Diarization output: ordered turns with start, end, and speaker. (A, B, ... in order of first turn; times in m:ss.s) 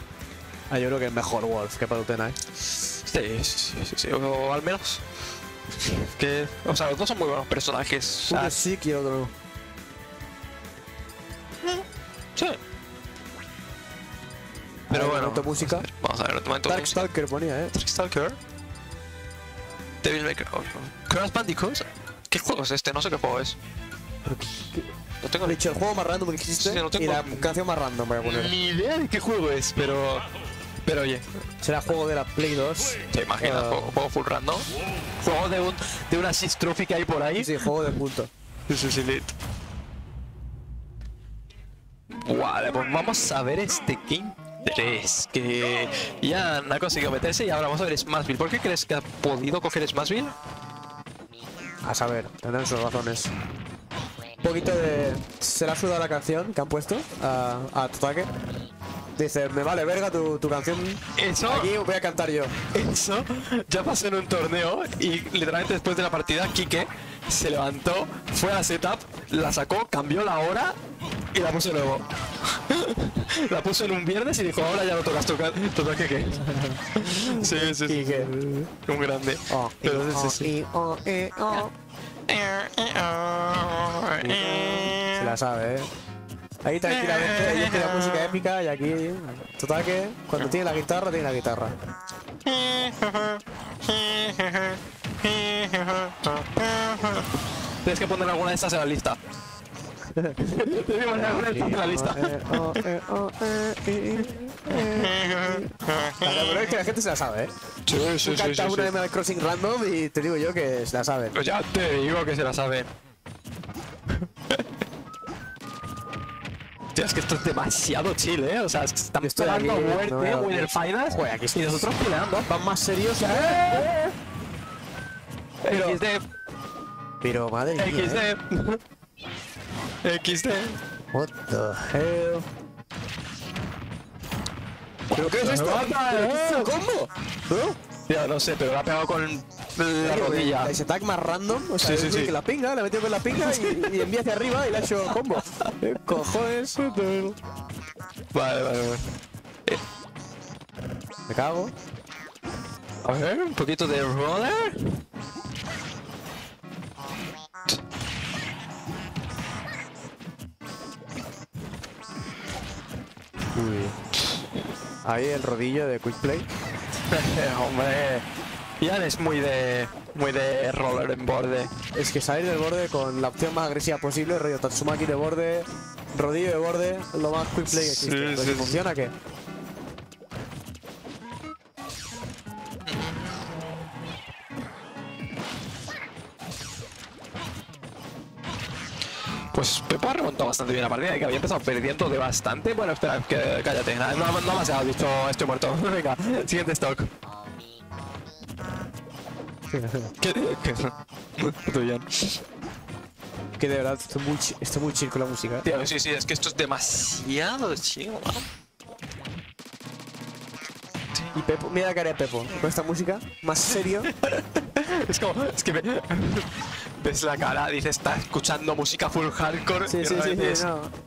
0:00.7-0:02.4 A
0:03.0-0:05.0 B
0:05.7-0:08.6 B
0:08.3-0:09.3 A
0:14.9-0:17.0 B
0:14.9-0:15.9 A
0:16.7-0:17.7 A
0:17.7-0:18.4 B
0:20.0-0:23.6 B
0:24.3-0:24.9 A
0:25.2-0:25.7 B
0:25.4-0:28.5 A
0:26.6-0:27.5 B
0:28.2-0:30.3 B
0:30.8-0:31.3 B
0:31.6-0:34.0 A
0:33.1-0:34.7 B
0:35.2-0:38.0 B
0:37.4-0:38.3 A
0:38.7-0:39.3 B
0:42.2-0:50.4 B
0:51.8-0:53.3 A
0:54.4-0:58.3 A
0:59.2-1:02.6 A
1:01.2-1:01.7 B
1:02.7-1:10.8 B
1:11.3-1:20.5 B
1:16.4-1:18.4 A
1:19.5-1:21.7 A
1:22.3-1:25.4 B
1:24.2-1:25.9 A
1:26.6-1:31.8 A
1:26.9-1:28.4 B
1:32.5-1:39.2 B
1:40.4-1:42.8 B
1:41.2-1:47.5 A
1:44.7-1:46.6 B
1:47.9-1:49.0 B
1:48.2-1:51.4 A
1:51.3-1:52.9 B
1:57.0-2:02.5 B
1:59.2-2:01.9 A
2:02.4-2:04.1 A
2:03.2-2:04.1 B
2:05.6-2:06.2 B
2:05.7-2:06.0 A
2:07.2-2:08.2 A
2:07.8-2:08.8 B
2:10.0-2:10.8 B
2:11.1-2:12.5 A
2:15.1-2:16.8 B
2:15.1-2:17.8 A
2:18.1-2:20.8 B
2:20.0-2:27.4 A
2:21.8-2:22.4 B
2:23.3-2:24.1 B
2:28.3-2:29.8 B
2:31.3-2:31.7 A
2:33.0-2:35.0 B
2:43.6-2:44.0 A
2:45.0-2:46.5 A
2:47.1-2:48.3 B
2:48.8-2:51.7 B
2:51.9-2:59.1 A
2:57.7-2:58.9 B
3:09.5-3:17.1 B
3:19.7-3:20.1 A
3:20.2-3:22.4 B
3:23.6-3:25.7 A
3:25.6-3:28.5 B
3:31.3-3:34.1 A
3:33.7-3:40.7 B
3:39.9-3:40.9 A